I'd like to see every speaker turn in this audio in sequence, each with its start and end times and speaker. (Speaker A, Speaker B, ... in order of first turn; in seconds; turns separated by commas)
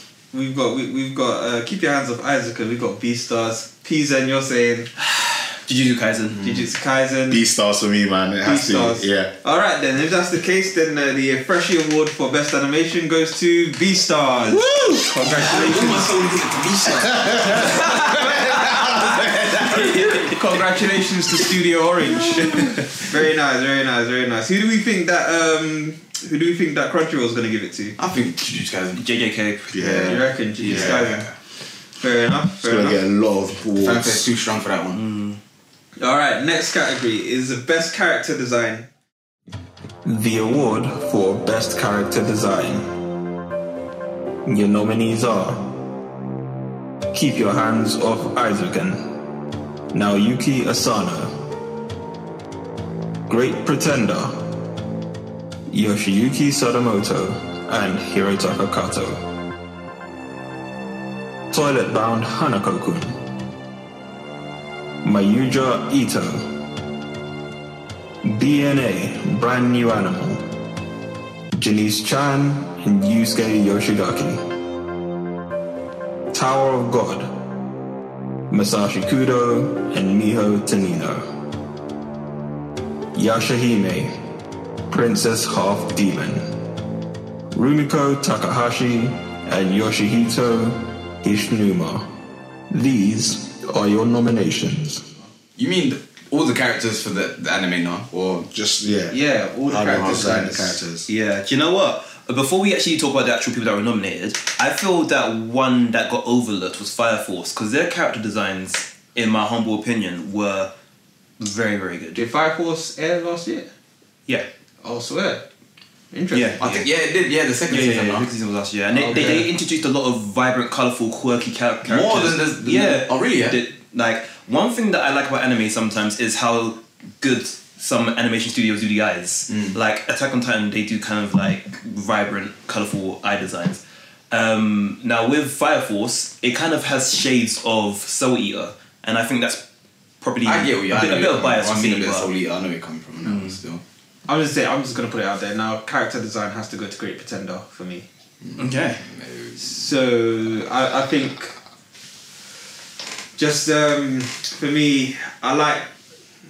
Speaker A: 0.3-4.9, Speaker B: 5.0-6.6, Speaker A: 6.4-7.4, Speaker C: 7.3-9.3, Speaker A: 8.4-16.1, Speaker D: 14.8-19.9, Speaker C: 17.2-17.6, Speaker B: 17.5-20.4, Speaker A: 20.2-28.0, Speaker B: 22.5-22.8, Speaker D: 28.0-29.0, Speaker B: 29.0-30.3, Speaker C: 29.7-30.2, Speaker A: 30.0-31.3, Speaker D: 30.6-31.3, Speaker A: 32.0-33.0, Speaker C: 32.6-34.3, Speaker D: 33.8-35.0, Speaker B: 35.0-35.4, Speaker A: 36.0-38.9, Speaker E: 40.1-42.8, Speaker E: 44.5-45.5, Speaker E: 47.1-49.0, Speaker E: 49.9-51.3, Speaker E: 53.3-54.3, Speaker E: 55.7-59.2, Speaker E: 61.5-63.1, Speaker E: 65.0-66.4, Speaker E: 68.3-70.4, Speaker E: 71.6-74.4, Speaker E: 76.3-77.3, Speaker E: 78.5-81.2, Speaker E: 83.2-84.1, Speaker E: 84.9-86.4, Speaker E: 87.5-92.0, Speaker E: 92.7-95.0, Speaker D: 95.6-98.5, Speaker C: 98.5-101.1, Speaker A: 99.1-100.8, Speaker B: 101.1-110.7, Speaker B: 111.4-112.2, Speaker A: 112.2-113.7, Speaker A: 114.8-115.4, Speaker A: 116.1-116.6, Speaker B: 116.3-116.9, Speaker D: 116.6-118.3, Speaker B: 117.7-139.6, Speaker A: 118.9-119.5, Speaker D: 121.8-123.6, Speaker D: 129.5-129.8, Speaker B: 140.2-142.3, Speaker D: 140.4-143.8, Speaker B: 143.2-143.6, Speaker A: 144.3-148.1, Speaker D: 148.4-149.6, Speaker B: 148.6-149.0, Speaker A: 149.6-151.6, Speaker A: 153.4-155.9